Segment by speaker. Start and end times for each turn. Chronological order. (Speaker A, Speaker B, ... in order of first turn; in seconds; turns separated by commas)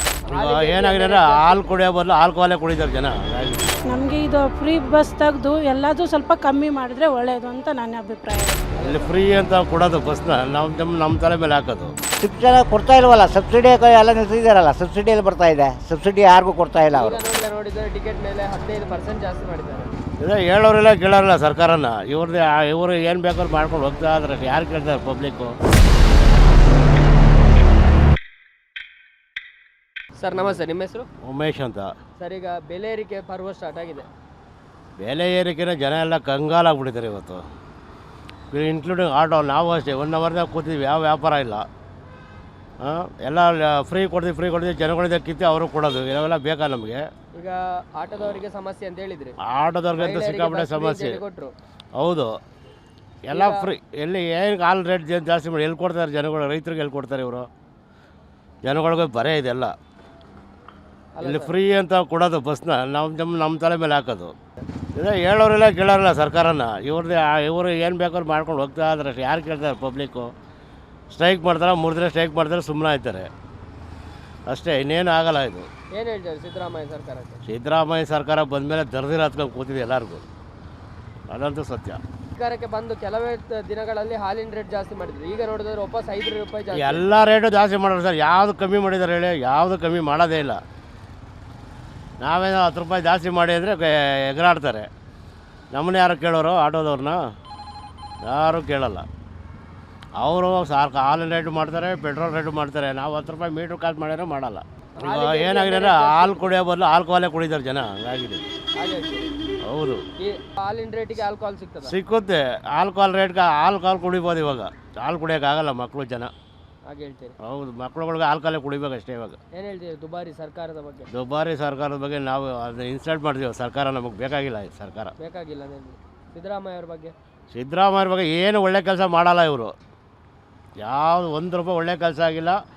Speaker A: 0.2-1.7, Speaker B: 0.3-3.7, Speaker C: 3.9-8.6, Speaker A: 8.7-9.2, Speaker B: 8.8-11.9, Speaker D: 12.2-17.2, Speaker A: 16.9-19.9, Speaker B: 20.2-25.5, Speaker A: 30.2-31.1, Speaker B: 31.2-31.9, Speaker A: 32.2-34.1, Speaker B: 35.0-37.4, Speaker B: 38.5-41.6, Speaker B: 42.8-47.0, Speaker A: 47.4-49.3, Speaker B: 49.5-51.2, Speaker A: 50.0-51.5, Speaker B: 52.0-52.3, Speaker B: 53.3-57.5, Speaker A: 53.3-53.6, Speaker B: 58.6-59.7, Speaker A: 61.2-61.5, Speaker B: 61.2-64.3, Speaker B: 65.0-70.3, Speaker B: 71.1-73.3, Speaker B: 74.5-75.7, Speaker A: 75.9-77.4, Speaker B: 77.5-80.2, Speaker B: 81.3-82.0, Speaker A: 82.3-87.1, Speaker B: 86.7-90.6, Speaker B: 92.2-94.9, Speaker B: 95.7-97.2, Speaker B: 98.2-99.0, Speaker B: 100.2-108.4, Speaker A: 105.0-106.5, Speaker A: 108.8-109.3, Speaker B: 109.6-110.0, Speaker A: 110.2-111.9, Speaker B: 111.8-116.3, Speaker A: 116.9-117.3, Speaker B: 117.4-119.4, Speaker A: 119.5-121.0, Speaker B: 121.1-125.1, Speaker A: 125.2-127.1, Speaker B: 127.5-129.7, Speaker B: 130.8-132.6